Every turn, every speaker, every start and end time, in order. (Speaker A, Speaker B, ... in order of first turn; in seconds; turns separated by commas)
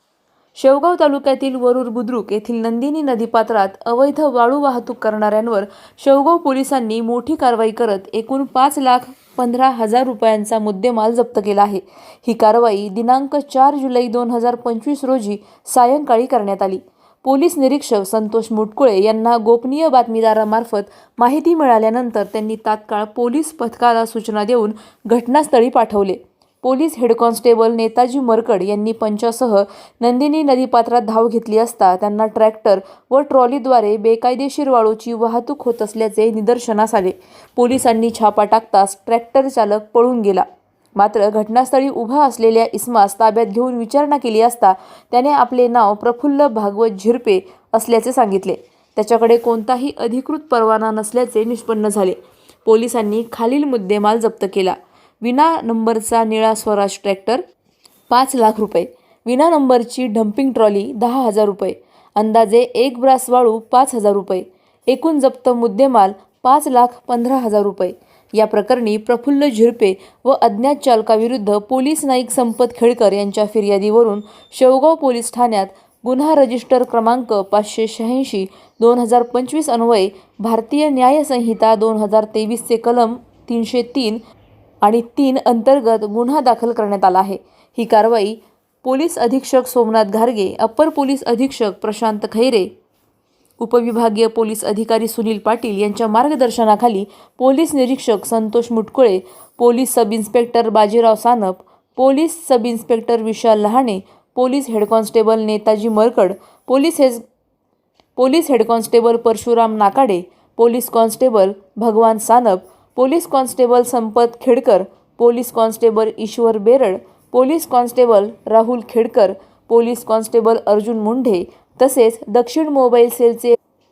Speaker A: 0.5-57.4, Speaker A: 58.1-84.2, Speaker A: 84.8-92.7, Speaker A: 93.6-107.2, Speaker A: 108.2-123.5